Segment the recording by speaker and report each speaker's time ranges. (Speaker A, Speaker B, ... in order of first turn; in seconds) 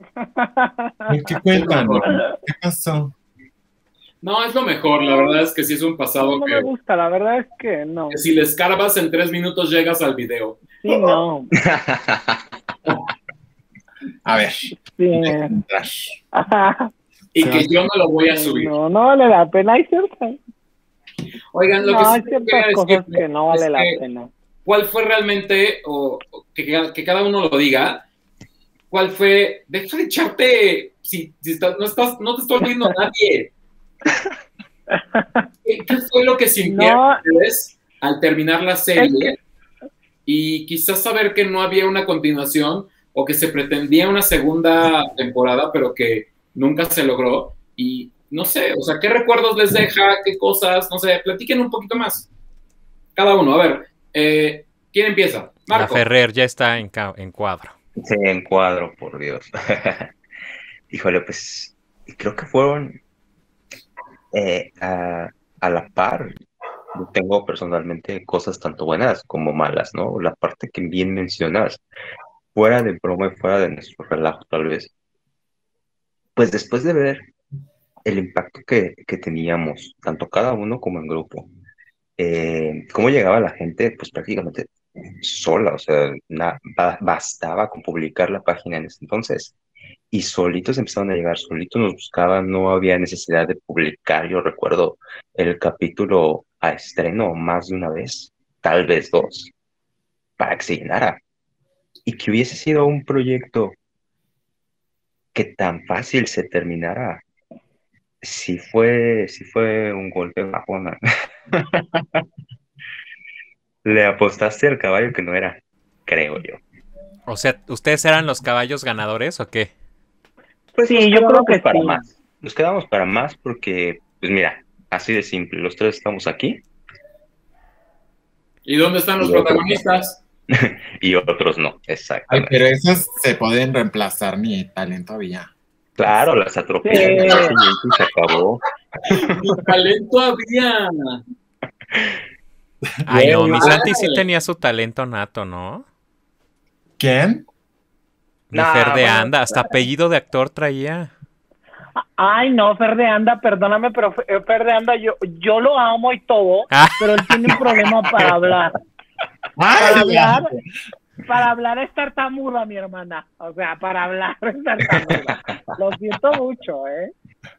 Speaker A: 0.2-1.1, 5.0-5.4, 6.2-8.2, 10.8-11.5, 14.9-15.6, 16.3-16.9, 18.3-20.4, 21.8-24.3, 34.9-35.4, 36.6-37.2, 120.8-122.0, 136.8-137.6, 152.2-158.7, 159.7-160.5, 161.2-167.1
Speaker B: 1.1-3.1, 14.2-16.1, 17.4-17.7, 132.3-135.5, 143.0-143.9, 147.0-147.4, 159.6-160.6
Speaker C: 1.5-2.1, 4.2-6.7, 8.1-10.6, 17.3-18.7, 21.5-24.0, 24.6-28.1, 28.9-33.5, 35.6-39.4, 40.2-52.3, 53.1-56.0, 128.7-130.2, 137.2-137.7, 139.3-141.2, 143.6-144.2
Speaker D: 11.6-12.4, 58.0-60.1, 60.9-63.0, 64.3-66.4, 66.9-71.8, 72.5-74.9, 76.3-77.3, 78.0-81.5, 82.2-89.5, 90.1-99.5, 100.4-101.2, 102.0-103.7, 105.3-107.2, 108.2-111.0, 111.5-112.2, 113.8-116.6, 120.7-126.6, 129.2-129.8, 130.5-132.6, 136.0-139.6, 148.5-149.7
Speaker E: 55.7-57.7, 117.3-119.7, 143.1-145.8, 148.5-151.1, 156.7-157.5